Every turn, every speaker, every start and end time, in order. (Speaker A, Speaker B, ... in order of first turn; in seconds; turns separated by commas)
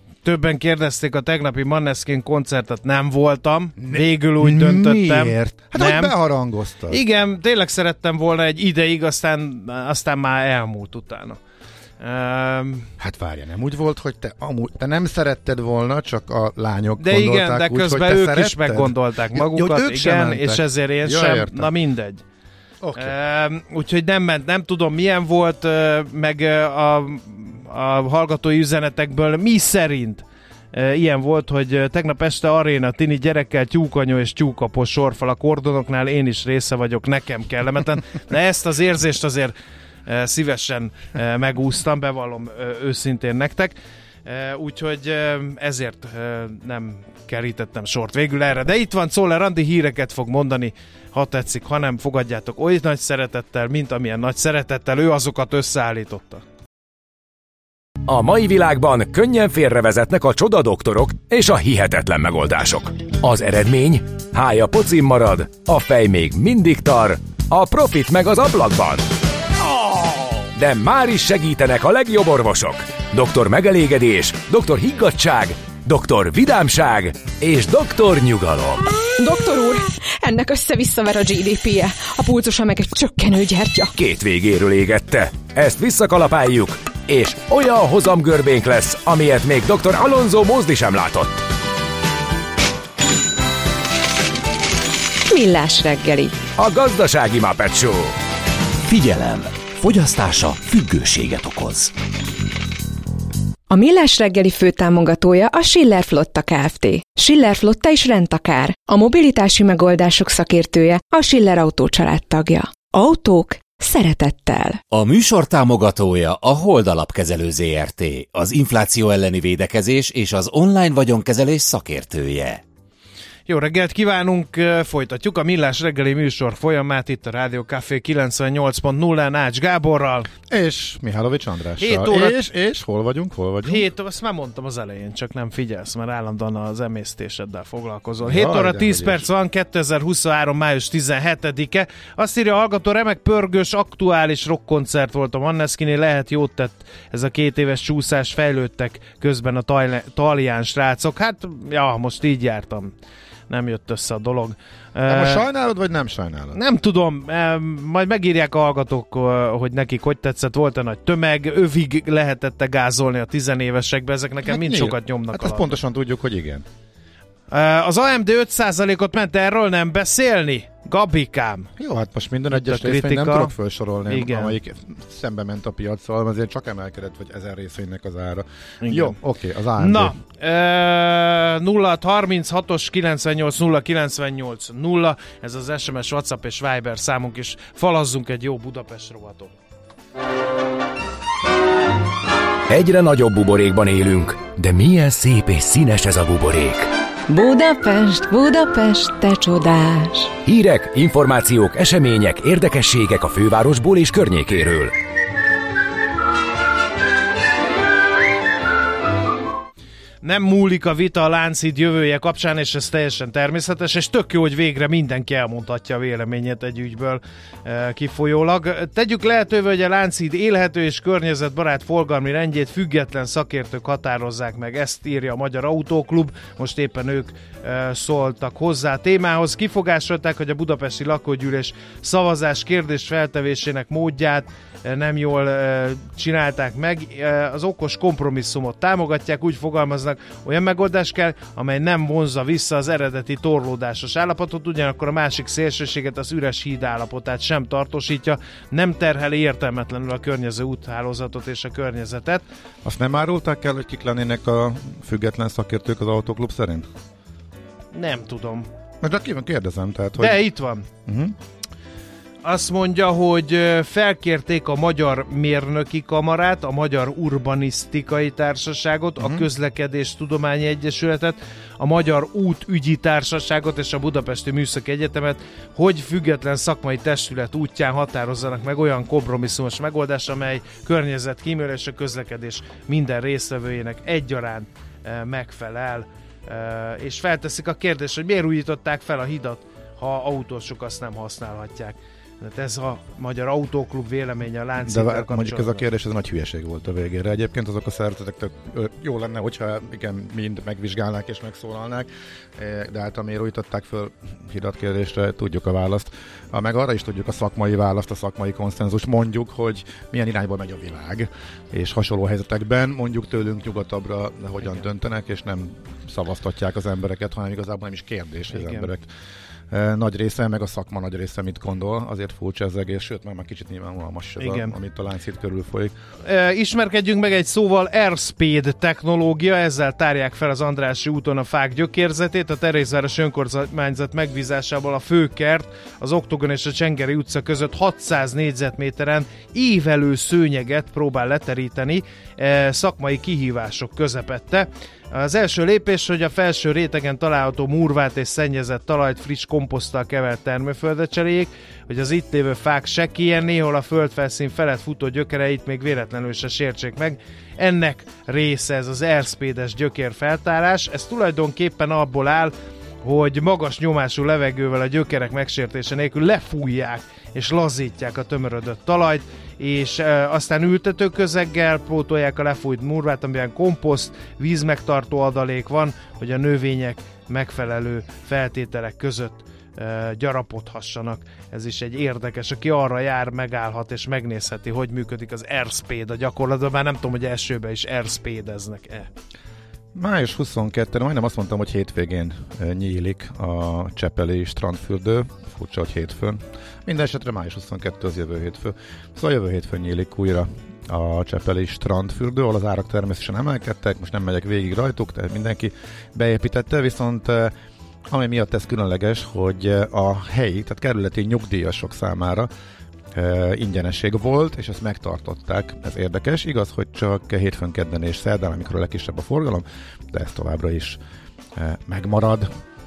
Speaker A: 0.2-6.2, Speaker B: 3.8-7.0, Speaker A: 6.9-11.4, Speaker A: 12.0-12.9, Speaker B: 13.0-21.7, Speaker A: 17.0-22.2, Speaker B: 22.8-23.2, Speaker A: 23.0-39.5, Speaker A: 40.1-56.4, Speaker C: 58.0-69.1, Speaker C: 70.5-78.9, Speaker D: 79.2-83.9, Speaker C: 84.0-91.4, Speaker D: 95.3-96.4, Speaker C: 96.6-98.2, Speaker E: 98.9-101.9, Speaker D: 103.7-114.8, Speaker E: 114.9-122.6, Speaker A: 123.5-130.3, Speaker B: 130.5-133.9, Speaker A: 131.8-132.4, Speaker A: 133.7-152.9, Speaker B: 138.2-139.3, Speaker A: 153.5-155.4, Speaker B: 155.1-156.6, Speaker A: 156.5-165.8, Speaker B: 164.4-166.7, Speaker A: 167.5-171.7, Speaker B: 171.8-180.2, Speaker A: 172.5-173.5, Speaker A: 174.1-174.6, Speaker A: 178.8-179.2, Speaker A: 179.8-189.5, Speaker C: 192.7-196.9, Speaker D: 197.3-200.3, Speaker C: 200.4-204.9, Speaker A: 210.2-252.4, Speaker B: 252.8-256.9, Speaker A: 257.9-258.7, Speaker B: 259.0-260.4, Speaker A: 260.2-260.9, Speaker B: 261.1-261.4, Speaker A: 262.4-295.9, Speaker B: 269.2-269.5, Speaker B: 294.8-319.1, Speaker A: 318.5-318.9, Speaker B: 319.7-325.9, Speaker A: 324.4-324.7, Speaker A: 326.2-362.5, Speaker A: 363.0-389.1, Speaker B: 389.9-407.5, Speaker B: 408.1-412.5, Speaker B: 413.1-421.0, Speaker B: 421.6-422.5